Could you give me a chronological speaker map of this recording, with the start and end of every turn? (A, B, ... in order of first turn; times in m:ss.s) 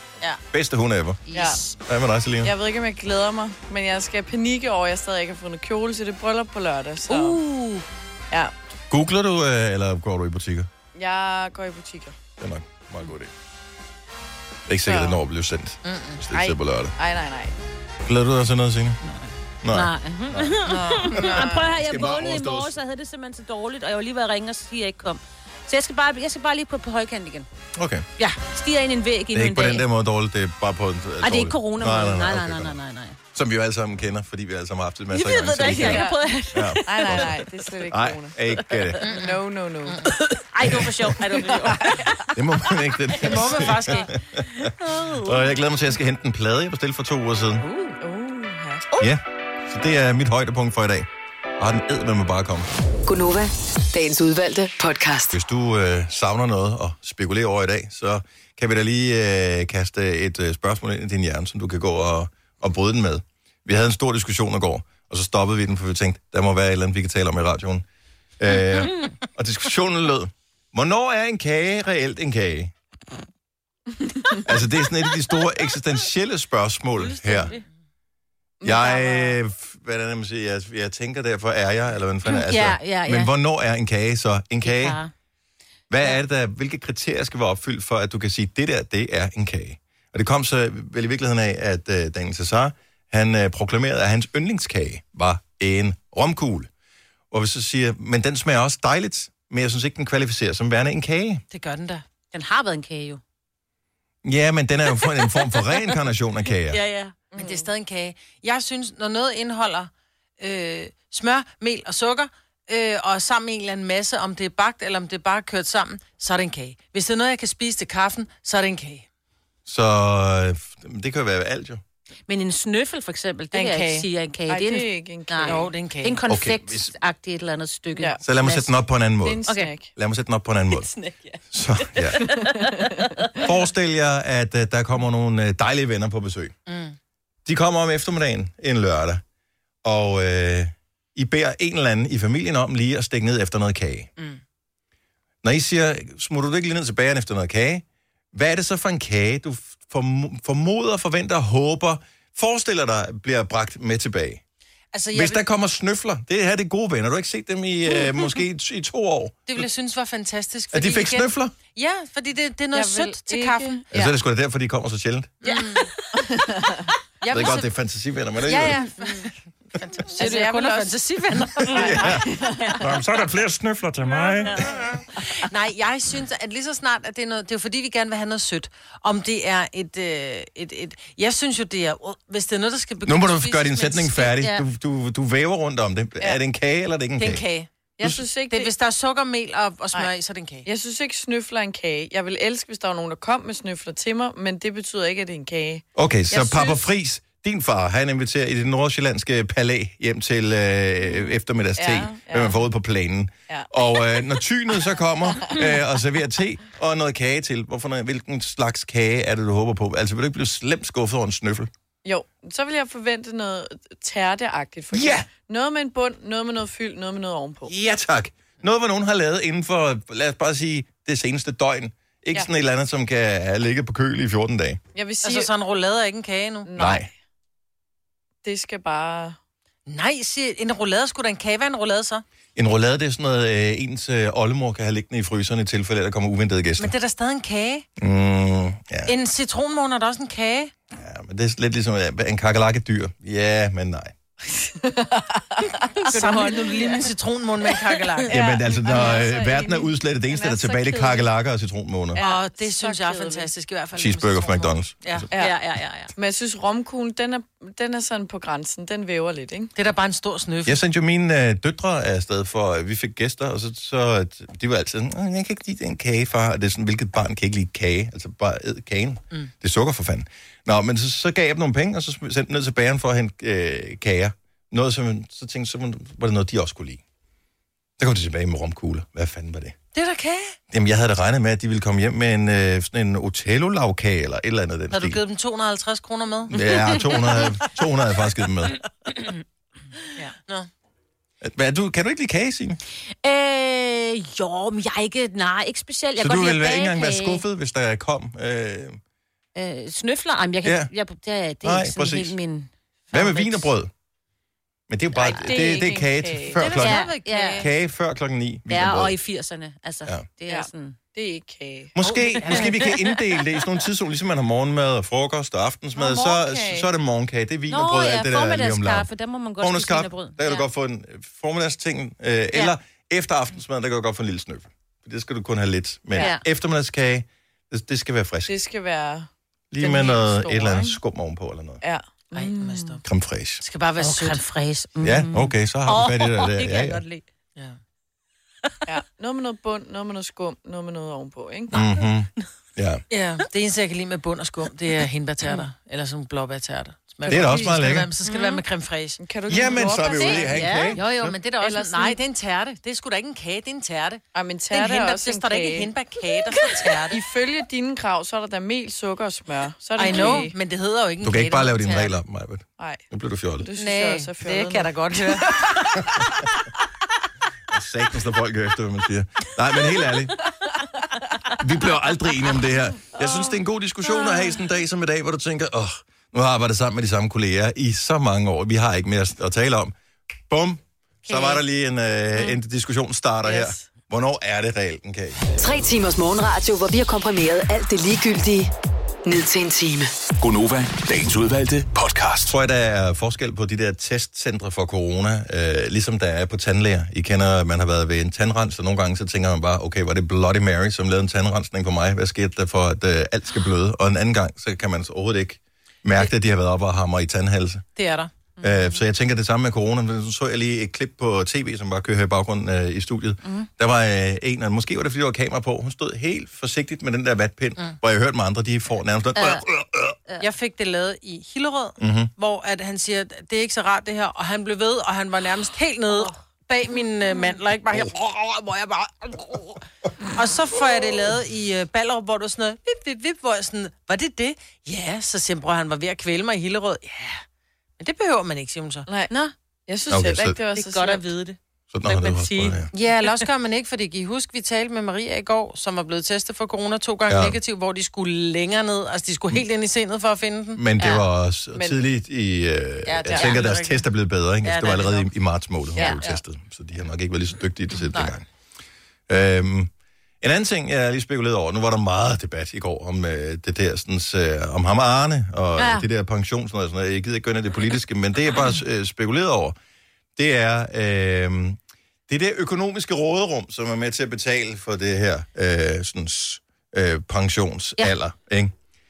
0:00.5-0:01.2 A
0:01.3-0:01.8 B
0:01.3-0:01.6 C
0:01.8-0:02.5 A
0:02.4-0:07.4 C
0:07.1-0:07.8 B
0:08.9-0:10.7 A
0:11.0-0:12.2 C
0:12.4-0:13.3 A
0:14.7-0:16.9 A
0:14.8-0:15.2 C
0:15.8-0:16.2 D
0:17.0-0:17.6 C
0:18.0-0:19.0 A
0:19.0-0:27.5 B
0:19.6-0:22.8 A
0:20.7-0:21.3 D
0:21.2-0:21.7 C
0:27.8-0:28.1 A
0:28.2-0:29.8 B
0:29.3-0:32.8 A
0:31.2-0:33.2 B
0:33.3-0:37.4 A
0:35.1-0:37.4 B
0:35.7-0:36.2 C
0:36.9-0:38.4 C
0:37.9-0:39.0 A
0:39.0-0:40.1 D
0:39.1-0:40.0 C
0:40.1-0:42.3 B
0:42.4-0:47.7 A
0:43.1-0:44.1 D
0:44.5-0:45.5 B
0:48.0-0:48.9 C
0:49.0-0:52.7 A
0:53.1-0:55.4 E
0:55.3-1:07.8 A
1:08.4-1:12.7 A
1:14.4-1:17.6 A
1:17.1-1:17.6 D
1:18.6-1:19.4 C
1:18.6-1:25.0 A
1:22.3-1:23.3 B
1:24.6-1:25.1 B
1:25.9-1:36.7 A
1:37.3-1:41.4 A
1:41.5-1:42.0 D
1:42.3-1:43.2 B
1:44.2-1:46.8 A
1:45.0-1:45.7 B
1:46.7-1:47.2 B
1:47.3-1:47.7 C
1:47.4-1:59.1 D
1:59.7-2:01.8 A
2:02.3-2:08.7 B
2:03.5-2:04.1 D
2:04.5-2:05.7 C
2:05.4-2:06.2 D
2:06.3-2:07.0 A
2:08.0-2:08.2 C
2:08.2-2:09.4 A
2:09.2-2:09.9 C
2:10.0-2:10.9 A
2:10.9-2:11.4 C
2:11.5-2:12.2 A
2:12.0-2:13.4 C
2:12.2-2:13.2 B
2:13.4-2:16.5 A
2:16.7-2:17.0 D
2:17.4-2:19.2 A
2:19.8-2:24.1 A
2:25.4-2:34.4 A
2:34.9-2:35.4 D
2:35.1-2:39.7 A
2:39.5-2:43.8 D
2:40.7-2:41.6 A
2:42.7-2:44.2 C
2:43.9-2:45.3 A
2:45.4-2:45.9 D
2:45.4-2:45.8 B
2:46.1-2:46.9 C
2:47.2-2:47.7 D
2:47.3-2:48.8 A
2:48.4-2:52.2 D
2:50.2-2:51.0 C
2:51.6-2:53.0 C
2:51.7-2:54.9 A
2:54.1-2:54.7 B
2:55.2-3:04.2 D
3:03.0-3:07.4 A
3:04.2-3:04.6 B
3:07.2-3:07.7 D
3:08.0-3:08.7 C
3:08.5-3:10.7 D
3:10.6-3:16.8 C
3:16.0-3:31.7 A
3:21.8-3:22.6 C
3:25.4-3:25.7 C
3:32.0-3:37.7 C
3:34.9-3:35.3 A
3:37.7-3:44.8 A
3:45.0-3:45.5 C
3:45.2-3:46.7 D
3:46.7-3:47.1 C
3:46.8-3:47.1 A
3:48.4-3:49.4 C
3:49.9-3:52.2 D
3:52.6-3:56.9 A
3:56.8-3:57.9 D
3:58.0-3:59.1 A
3:59.1-4:00.7 D
4:00.9-4:04.1 A
4:04.5-4:06.6 C
4:06.0-4:06.9 B
4:06.1-4:08.4 D
4:08.3-4:12.2 A
4:08.3-4:11.2 C
4:09.0-4:09.6 B
4:12.1-4:13.5 C
4:12.2-4:15.3 D
4:14.0-4:15.3 A
4:15.4-4:16.1 B
4:16.2-4:19.7 C
4:19.8-4:20.8 D
4:20.6-4:37.0 A
4:38.0-4:39.8 A
4:39.9-4:40.6 D
4:40.7-4:45.2 A
4:44.9-4:47.4 D
4:46.5-4:48.8 A
4:50.2-4:50.7 D
4:51.4-4:52.8 A
4:53.2-4:57.4 B
4:56.2-4:59.0 A
4:59.6-5:03.7 B
5:00.6-5:00.9 A
5:01.6-5:02.4 A
5:03.1-5:03.9 A
5:04.9-5:09.2 A
5:05.3-5:06.6 C
5:05.3-5:05.7 B
5:06.6-5:07.7 D
5:06.8-5:07.6 B
5:08.7-5:11.0 B
5:10.5-5:11.9 C
5:12.0-5:19.1 A
5:12.1-5:13.1 B
5:12.3-5:12.8 D
5:16.0-5:16.9 C
5:17.7-5:20.6 B
5:19.6-5:28.5 A
5:26.2-5:26.4 B
5:28.5-5:29.3 C
5:29.7-5:31.8 A
5:29.8-5:31.0 C
5:31.8-5:33.0 C
5:32.3-5:33.0 D
5:33.0-5:33.6 A
5:33.6-5:34.4 D
5:34.0-5:37.3 B
5:35.0-5:37.0 A
5:38.9-5:41.8 C
5:41.7-5:43.0 A
5:43.1-5:49.2 D
5:47.3-5:47.7 C
5:47.3-5:48.1 A
5:48.3-5:48.6 B
5:49.2-5:50.7 C
5:49.5-5:51.3 A
5:50.2-5:51.3 B
5:50.6-5:57.2 D
5:51.6-5:52.2 C
5:54.3-5:55.9 C
5:56.6-6:00.5 C
6:00.0-6:02.1 D
6:01.2-6:03.7 A
6:03.6-6:06.2 C
6:03.8-6:05.6 D
6:07.7-6:10.4 A
6:11.6-6:19.9 A
6:20.5-6:25.4 A
6:23.4-6:23.8 C
6:25.6-6:28.7 E
6:29.2-6:30.1 E
6:30.4-6:32.6 F
6:32.5-6:47.9 A
6:48.0-6:48.3 D
6:48.6-7:00.2 A
6:59.4-6:59.6 B
7:00.4-7:09.8 D
7:02.0-7:02.3 A
7:10.3-7:17.4 D
7:18.0-7:19.1 D
7:19.9-7:21.3 C
7:20.1-7:20.6 A
7:20.7-7:22.9 B
7:21.9-7:22.9 A
7:22.9-7:30.8 D
7:27.3-7:27.6 A
7:30.8-7:38.4 A
7:31.8-7:32.0 C
7:33.1-7:34.0 D
7:34.6-7:35.3 D
7:39.3-7:39.9 A
7:40.4-7:49.8 A
7:45.8-7:46.0 B
7:50.4-7:58.7 A